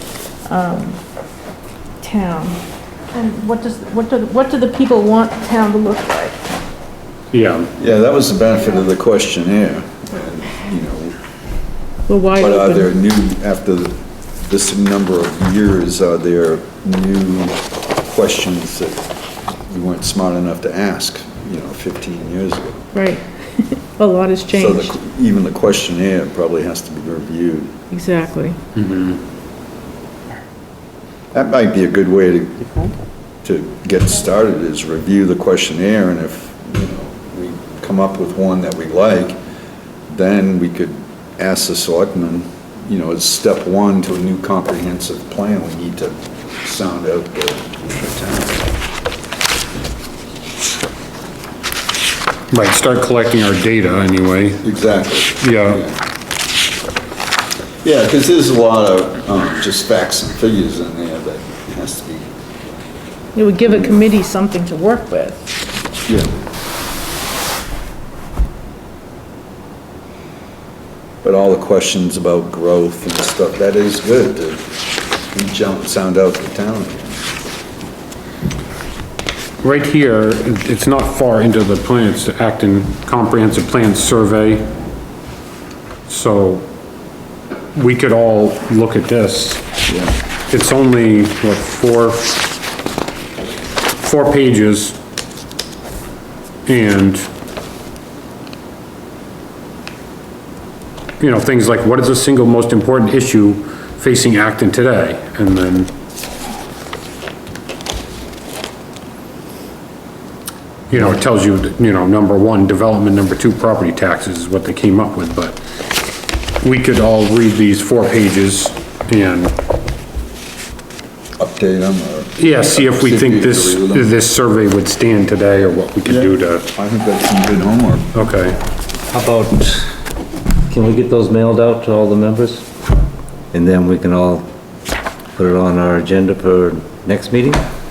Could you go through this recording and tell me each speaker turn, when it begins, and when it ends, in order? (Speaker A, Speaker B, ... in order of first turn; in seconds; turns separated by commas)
Speaker A: 0.5-1.0, Speaker A: 2.0-2.6, Speaker A: 3.1-6.4, Speaker B: 7.3-7.7, Speaker C: 7.8-11.1, Speaker A: 12.1-12.9, Speaker C: 12.4-19.0, Speaker C: 19.7-22.9, Speaker A: 22.9-24.9, Speaker C: 24.5-27.7, Speaker A: 27.9-28.6, Speaker B: 28.8-29.2, Speaker C: 31.3-32.7, Speaker C: 33.4-39.4, Speaker C: 40.1-48.7, Speaker B: 52.5-54.6, Speaker C: 54.6-56.0, Speaker B: 55.4-55.8, Speaker C: 57.8-62.2, Speaker A: 63.3-65.6, Speaker C: 71.2-74.7, Speaker C: 75.3-77.2, Speaker B: 79.6-84.7, Speaker B: 86.1-86.7, Speaker B: 87.7-89.7, Speaker B: 90.5-92.3, Speaker B: 94.0-95.0, Speaker B: 96.7-97.3, Speaker B: 101.2-105.9, Speaker B: 110.9-115.6, Speaker B: 116.6-119.5, Speaker C: 121.4-124.1, Speaker B: 122.4-126.7, Speaker C: 126.0-128.1, Speaker B: 128.1-128.6, Speaker D: 129.1-129.9, Speaker D: 130.7-132.7, Speaker D: 133.5-134.4, Speaker D: 135.3-137.6